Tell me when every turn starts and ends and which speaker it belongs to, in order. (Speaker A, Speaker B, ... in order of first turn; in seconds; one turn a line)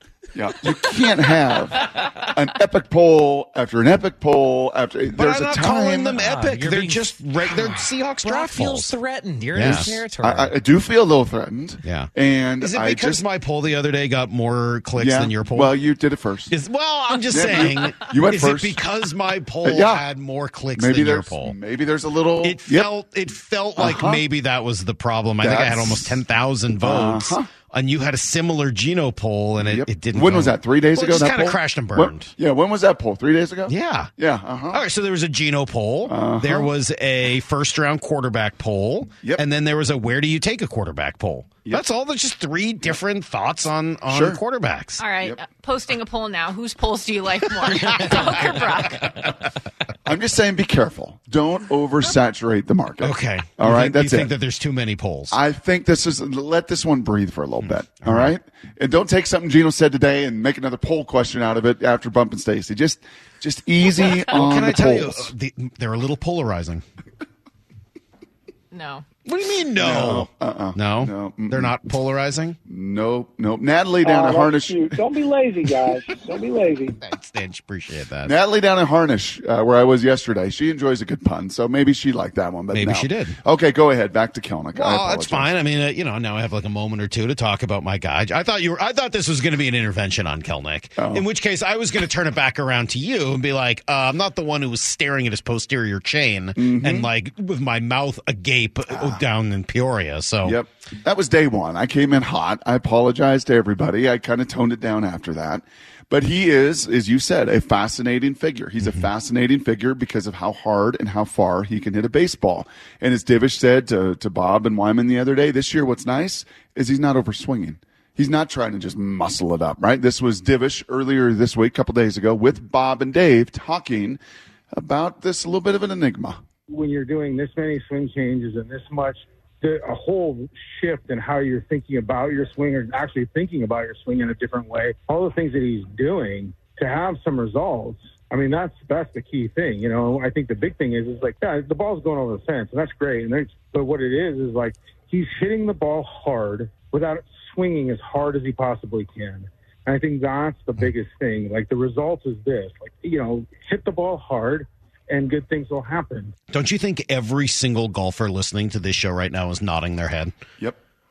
Speaker A: 0.3-6.2
Speaker B: 5.1-8.9
Speaker C: 6.0-10.5
Speaker B: 9.5-10.0
Speaker A: 10.2-13.2
Speaker B: 11.8-15.7
Speaker A: 15.0-16.5
Speaker B: 16.5-21.5
Speaker A: 17.3-18.8
Speaker A: 19.6-20.1
Speaker A: 20.7-22.9
Speaker B: 22.4-32.3
Speaker A: 23.8-24.2
Speaker A: 25.4-26.2
Speaker A: 26.8-27.5
Speaker A: 29.6-34.8
Speaker B: 33.7-34.1
Speaker B: 34.7-45.0
Speaker A: 36.1-36.7
Speaker A: 44.1-44.4
Speaker D: 45.0-49.3
Speaker A: 50.0-54.3
Speaker B: 53.0-55.4
Speaker A: 55.3-65.3
Speaker B: 57.6-58.3
Speaker B: 64.3-66.8
Speaker D: 68.7-69.0
Speaker B: 69.2-72.6
Speaker A: 69.8-71.8
Speaker A: 72.7-75.0
Speaker E: 74.0-76.9
Speaker B: 77.0-78.3
Speaker A: 78.2-85.5
Speaker B: 82.7-83.4
Speaker B: 84.8-100.6
Speaker A: 91.0-91.2
Speaker A: 96.5-97.1
Speaker A: 98.9-99.2
Speaker A: 100.4-124.2
Speaker A: 124.7-126.4
Speaker F: 126.7-156.3
Speaker B: 156.5-160.3